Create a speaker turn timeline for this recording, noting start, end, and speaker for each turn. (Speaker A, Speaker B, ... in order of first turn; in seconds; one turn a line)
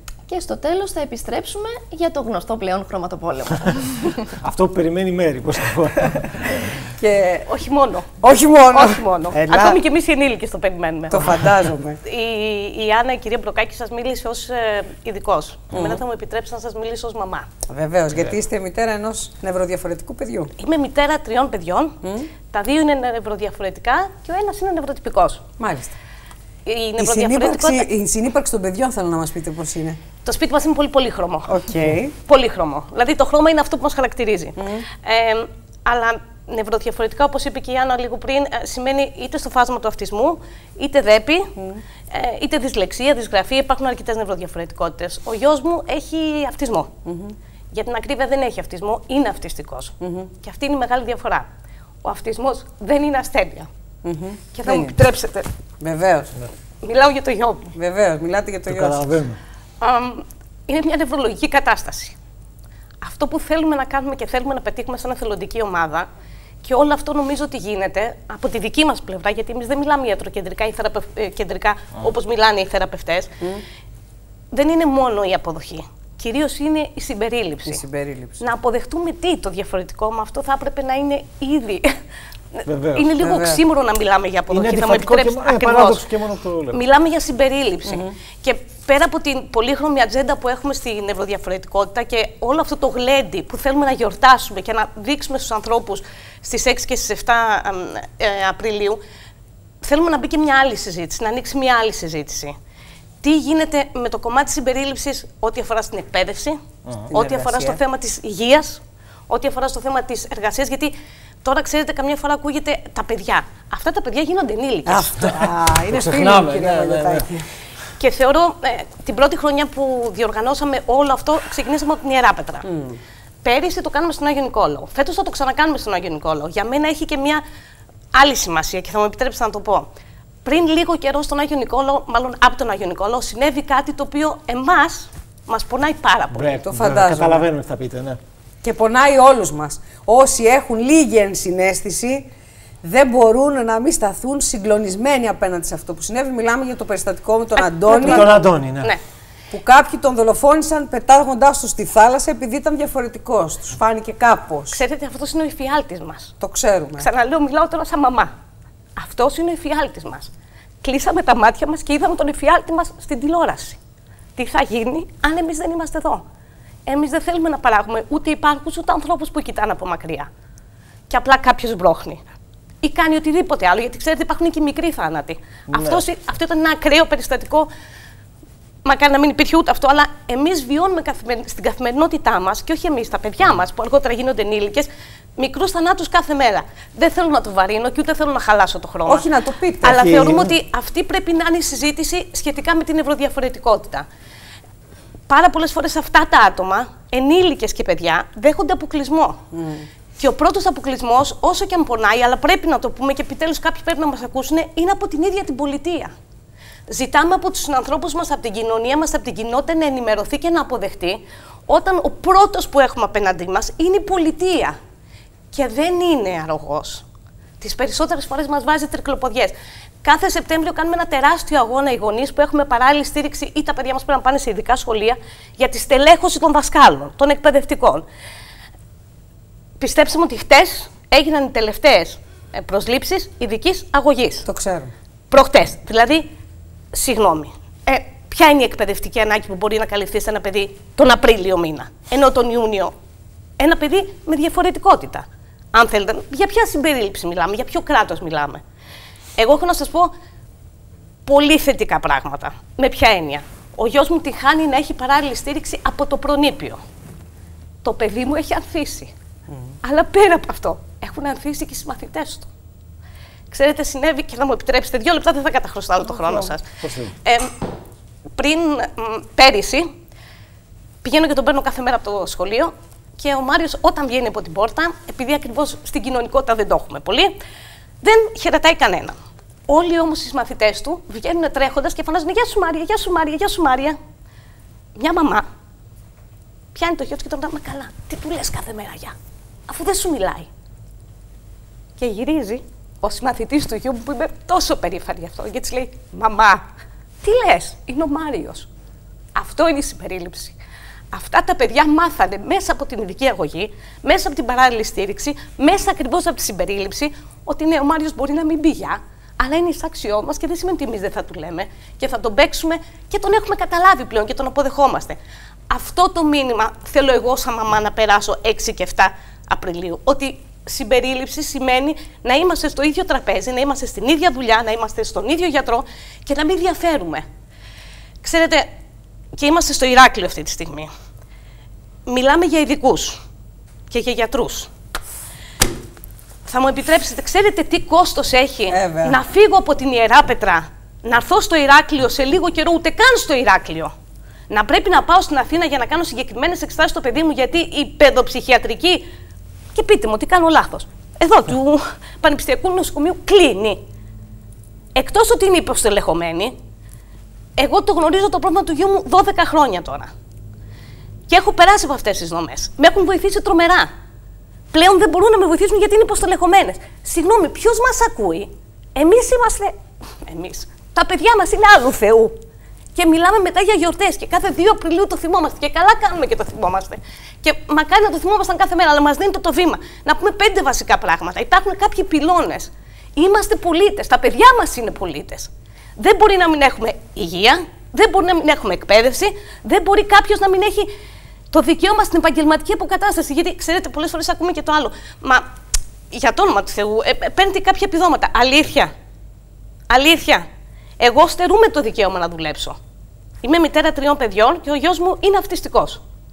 Speaker A: 0.3-4.3
Speaker B: 4.4-6.8
Speaker C: 7.0-7.5
Speaker D: 7.5-8.1
Speaker C: 8.2-9.8
Speaker D: 8.7-11.5
Speaker C: 11.1-12.0
Speaker D: 12.1-17.5
Speaker B: 15.7-16.0
Speaker C: 17.7-20.5
Speaker D: 20.6-22.0
Speaker C: 22.0-22.3
Speaker D: 22.5-25.4
Speaker C: 25.6-25.9
Speaker D: 26.7-27.9
Speaker C: 27.0-30.0
Speaker D: 30.2-31.6
Speaker C: 31.5-32.1
Speaker D: 32.2-41.5
Speaker C: 34.6-34.9
Speaker C: 41.6-41.8
Speaker D: 42.1-46.9
Speaker C: 47.1-47.4
Speaker D: 47.7-51.5
Speaker C: 50.0-50.3
Speaker D: 52.0-53.7
Speaker C: 54.0-55.0
Speaker D: 54.5-55.5
Speaker C: 55.8-56.3
Speaker D: 56.8-57.7
Speaker C: 57.8-59.0
Speaker B: 58.7-59.4
Speaker D: 59.8-62.1
Speaker D: 63.0-66.1
Speaker D: 66.6-73.3
Speaker D: 74.5-77.8
Speaker C: 77.7-78.4
Speaker D: 78.4-82.0
Speaker D: 82.5-86.0
Speaker B: 82.7-83.2
Speaker C: 83.2-83.6
Speaker B: 84.5-86.8
Speaker D: 86.7-99.0
Speaker D: 99.8-102.5
Speaker D: 103.2-106.6
Speaker C: 107.1-107.8
Speaker D: 107.1-115.3
Speaker C: 114.9-117.5
Speaker B: 115.2-117.3
Speaker D: 118.0-122.7
Speaker C: 122.7-123.0
Speaker D: 123.4-127.4
Speaker D: 128.1-129.9
Speaker D: 130.4-136.7
Speaker B: 136.3-138.2
Speaker C: 136.7-137.5
Speaker C: 138.6-142.3
Speaker C: 142.8-148.3
Speaker D: 147.6-149.0
Speaker B: 148.0-149.0
Speaker C: 149.5-154.8
Speaker D: 154.7-156.3
Speaker C: 156.4-157.1
Speaker D: 157.0-158.3
Speaker D: 159.0-160.3
Speaker D: 160.8-163.8
Speaker D: 164.4-166.2
Speaker D: 166.9-170.3
Speaker D: 171.1-172.2
Speaker D: 172.8-177.7
Speaker B: 175.7-176.1
Speaker D: 178.8-189.3
Speaker C: 189.1-190.4
Speaker D: 189.8-194.1
Speaker B: 189.9-190.5
Speaker D: 195.3-199.4
Speaker C: 199.5-199.9
Speaker D: 200.2-206.1
Speaker D: 206.9-214.8
Speaker D: 215.5-217.0
Speaker D: 217.6-228.1
Speaker D: 229.8-234.5
Speaker C: 234.5-234.9
Speaker D: 235.3-236.3
Speaker D: 236.9-242.9
Speaker D: 243.6-248.6
Speaker D: 249.4-250.1
Speaker D: 251.2-256.8
Speaker D: 257.8-259.1
Speaker D: 259.8-262.5
Speaker D: 263.5-266.6
Speaker B: 266.1-267.1
Speaker D: 267.2-267.6
Speaker D: 268.4-269.9
Speaker D: 271.0-277.4
Speaker D: 278.0-279.2
Speaker D: 279.7-284.0
Speaker D: 285.0-285.5
Speaker D: 286.8-289.1
Speaker D: 289.7-290.5
Speaker D: 292.0-296.6
Speaker D: 297.2-298.7
Speaker D: 299.4-300.6
Speaker D: 301.1-315.2
Speaker D: 315.7-327.3
Speaker D: 328.2-328.7
Speaker D: 329.4-330.9
Speaker D: 332.1-333.2
Speaker D: 333.9-334.7
Speaker D: 336.4-343.9
Speaker C: 338.7-339.2
Speaker D: 344.5-349.1
Speaker D: 349.7-353.8
Speaker D: 354.9-356.6
Speaker D: 357.6-360.1
Speaker D: 361.3-363.9
Speaker D: 364.7-372.3
Speaker D: 372.9-390.9
Speaker D: 391.5-395.5
Speaker D: 396.1-398.9
Speaker D: 399.9-400.4
Speaker D: 401.0-402.8
Speaker D: 403.4-406.0